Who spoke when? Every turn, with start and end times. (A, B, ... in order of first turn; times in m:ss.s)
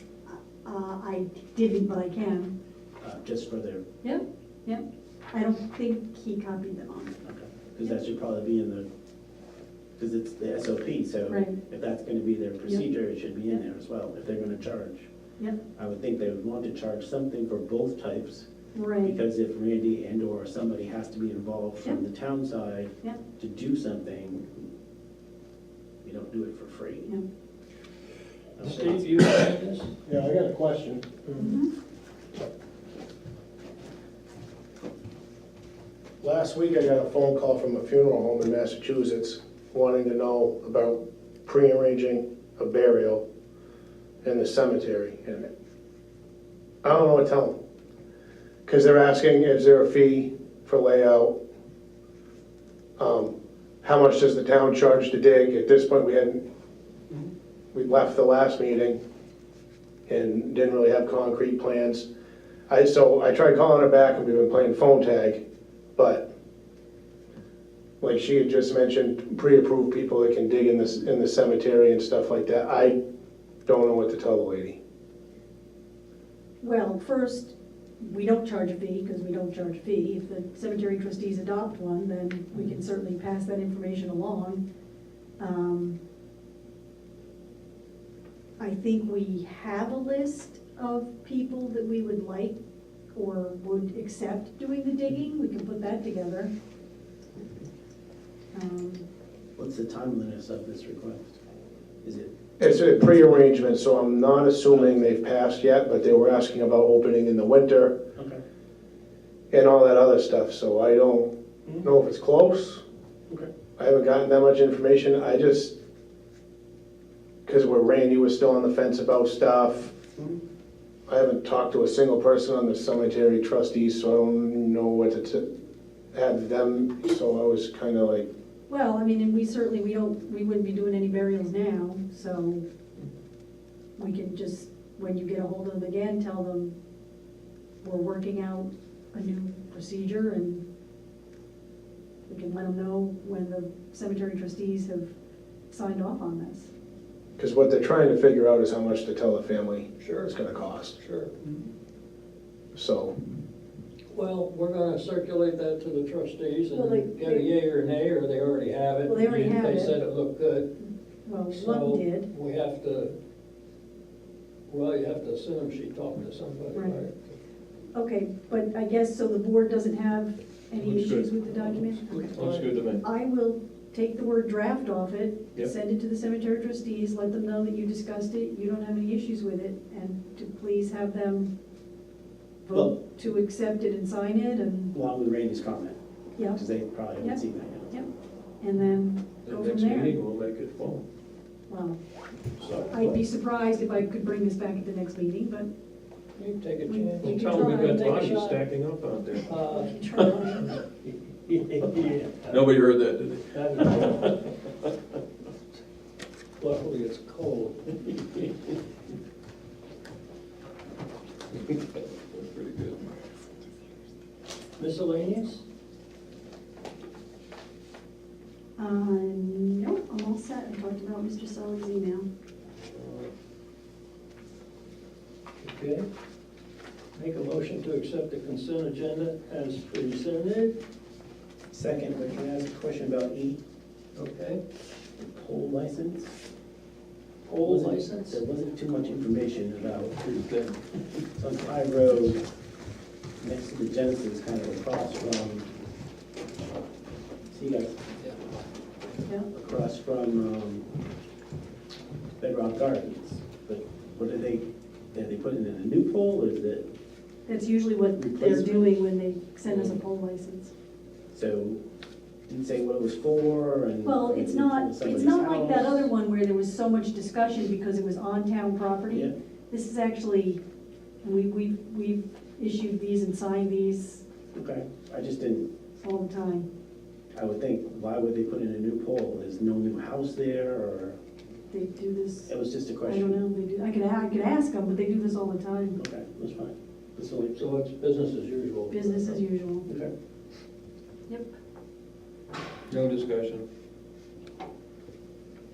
0:00.3-0:02.5 A
0:03.0-0:03.8 B
0:04.0-0:07.2 A
0:07.2-0:08.9 B
0:10.0-0:15.1 B
0:11.3-0:11.6 A
0:15.8-0:18.5 B
0:18.7-0:19.1 A
0:19.0-0:24.6 B
0:26.0-0:27.1 B
0:28.6-0:29.1 B
0:28.6-0:29.9 C
0:30.0-0:31.4 D
0:31.4-0:31.7 A
0:36.2-0:43.2 D
0:44.2-0:45.5 D
0:46.8-0:47.6 D
0:48.7-0:51.3 D
0:53.0-0:56.4 D
0:57.7-0:59.0 D
1:00.1-1:02.1 D
1:02.7-1:05.4 D
1:06.0-1:06.3 D
1:08.0-1:13.0 D
1:13.7-1:14.8 D
1:16.6-1:24.6 A
1:25.4-1:26.0 A
1:28.6-1:32.6 A
1:33.1-1:36.5 A
1:38.5-1:39.0 A
1:39.6-1:41.4 B
1:42.0-1:42.3 B
1:42.6-1:48.0 D
1:44.8-1:45.1 B
1:48.2-1:48.4 B
1:49.5-1:52.8 D
1:53.8-1:55.8 D
1:57.5-2:00.0 D
2:01.1-2:05.5 D
2:06.1-2:08.3 D
2:08.7-2:12.6 A
2:14.0-2:16.7 A
2:17.8-2:20.6 A
2:22.3-2:25.1 A
2:25.7-2:26.7 A
2:27.4-2:31.0 D
2:30.0-2:30.3 C
2:31.0-2:31.3 C
2:32.7-2:33.2 D
2:34.1-2:40.8 C
2:36.7-2:37.5 A
2:39.0-2:40.0 A
2:41.2-2:42.3 A
2:41.5-2:43.2 C
2:44.7-2:47.3 C
2:46.7-2:47.0 A
2:47.9-2:52.3 A
2:50.8-2:51.3 E
2:52.1-2:52.7 C
2:52.3-2:53.0 E
2:53.0-3:01.5 A
3:02.6-3:04.9 A
3:02.7-3:03.0 B
3:04.9-3:08.0 B
3:06.4-3:06.6 A
3:07.2-3:08.1 A
3:08.6-3:10.2 A
3:09.4-3:11.0 E
3:11.7-3:12.0 A
3:12.6-3:12.9 C
3:12.7-3:15.7 A
3:16.4-3:18.6 C
3:16.9-3:18.4 A
3:17.2-3:19.5 E
3:19.4-3:19.9 C
3:19.6-3:20.8 A
3:21.5-3:22.6 C
3:22.5-3:24.5 E
3:23.5-3:24.4 C
3:26.6-3:28.2 C
3:31.5-3:33.1 E
3:34.8-3:35.6 C
3:38.8-3:42.3 A
3:45.6-3:46.1 C
3:47.2-3:50.8 C
3:51.7-3:53.6 B
3:54.2-3:54.6 C
3:55.2-3:56.3 B
3:57.5-3:58.4 C
3:57.6-4:00.2 B
4:00.2-4:00.8 E
4:01.3-4:02.4 B
4:03.4-4:05.7 B
4:07.5-4:08.0 B
4:09.5-4:10.9 B
4:12.4-4:16.8 B
4:17.5-4:20.7 A
4:18.2-4:19.0 B
4:21.3-4:21.8 B
4:22.5-4:26.1 B
4:24.0-4:30.6 A
4:31.2-4:34.2 A
4:34.5-4:35.7 B
4:36.0-4:36.7 A
4:37.3-4:41.2 B
4:41.7-4:42.5 A
4:42.5-4:43.4 B
4:43.0-4:46.0 A
4:46.0-4:47.6 B
4:47.6-4:49.4 C
4:48.9-4:49.9 A
4:52.9-4:53.6 E